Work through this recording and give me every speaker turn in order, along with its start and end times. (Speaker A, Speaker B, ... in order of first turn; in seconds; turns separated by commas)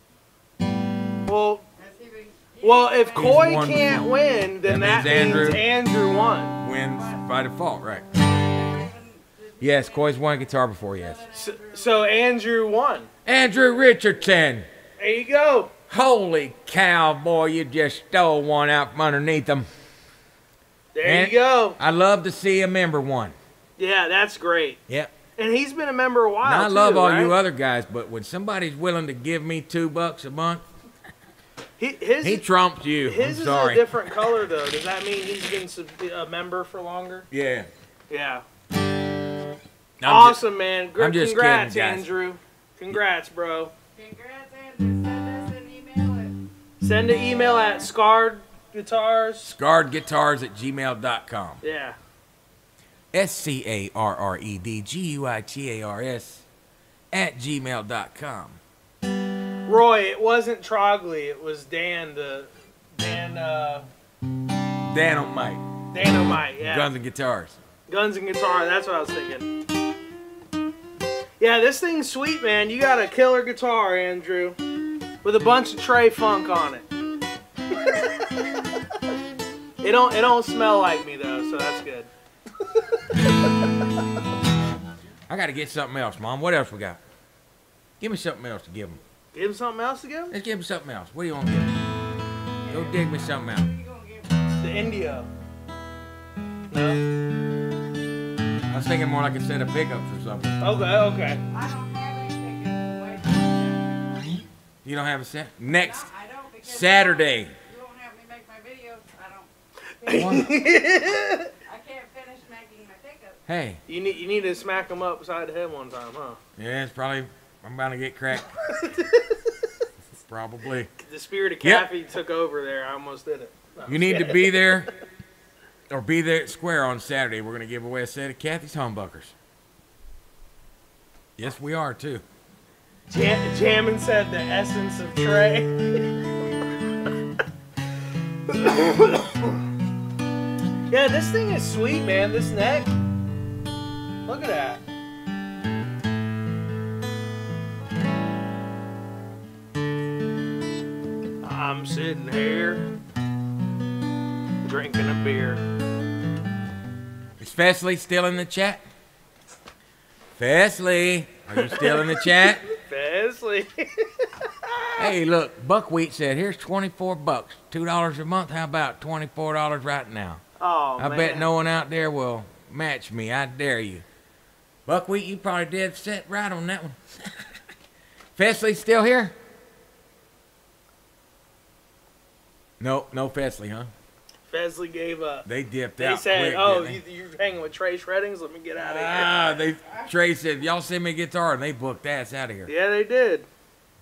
Speaker A: 1.2-1.6, Speaker B: 1.8-3.6, Speaker A: 2.6-6.6, Speaker C: 3.1-4.1, Speaker C: 4.7-5.7, Speaker C: 6.6-8.1, Speaker B: 6.9-7.2, Speaker B: 8.2-12.1, Speaker C: 9.6-11.2, Speaker A: 11.4-13.1, Speaker C: 13.3-14.7, Speaker A: 15.0-15.7, Speaker C: 15.9-19.7, Speaker A: 20.9-21.8, Speaker C: 21.0-23.4, Speaker A: 23.8-24.8, Speaker C: 24.9-25.1, Speaker A: 25.4-27.4, Speaker C: 26.4-30.6, Speaker A: 31.8-32.4, Speaker C: 32.2-34.2, Speaker A: 33.0-37.3, Speaker C: 37.3-37.7, Speaker A: 38.1-38.4, Speaker C: 40.0-40.4, Speaker A: 40.0-43.7, Speaker C: 41.0-42.1, Speaker B: 44.0-46.4, Speaker A: 46.8-49.6, Speaker C: 49.5-51.6, Speaker A: 51.6-52.0, Speaker C: 53.1-56.5, Speaker C: 57.1-58.6, Speaker A: 59.7-63.9, Speaker C: 64.9-65.6, Speaker A: 65.9-66.9, Speaker C: 66.6-67.6, Speaker A: 67.9-69.5, Speaker A: 71.4-74.6, Speaker A: 75.2-76.9, Speaker A: 77.8-78.2, Speaker A: 79.8-82.1, Speaker C: 85.3-87.0, Speaker C: 88.0-89.0, Speaker A: 89.3-90.3, Speaker C: 90.3-91.8, Speaker B: 92.6-94.8, Speaker C: 92.7-93.7, Speaker A: 94.6-95.3, Speaker A: 96.7-97.0, Speaker C: 98.7-100.6, Speaker A: 100.6-101.4, Speaker B: 101.5-104.5, Speaker C: 104.8-106.1, Speaker B: 105.7-111.0, Speaker C: 106.6-107.5, Speaker A: 110.0-111.5, Speaker C: 110.2-110.6, Speaker B: 111.6-113.4, Speaker C: 113.5-113.8, Speaker A: 113.9-116.4, Speaker C: 116.6-118.5, Speaker A: 118.7-119.4, Speaker C: 120.2-120.9, Speaker A: 121.0-124.5, Speaker C: 123.9-124.9, Speaker C: 125.9-129.3, Speaker C: 131.4-132.2, Speaker A: 133.1-136.2, Speaker A: 138.5-139.6, Speaker A: 140.9-142.9, Speaker A: 144.3-144.8, Speaker A: 151.4-152.9, Speaker A: 154.6-155.6, Speaker C: 157.4-158.8, Speaker C: 160.4-162.6, Speaker A: 161.6-165.1, Speaker C: 165.0-170.4, Speaker A: 170.6-171.5, Speaker C: 171.0-174.1, Speaker C: 174.9-177.4, Speaker C: 178.4-179.3, Speaker C: 182.8-183.9, Speaker A: 184.5-185.5, Speaker C: 185.5-187.0, Speaker A: 186.0-189.4, Speaker C: 188.8-192.7, Speaker A: 192.7-193.5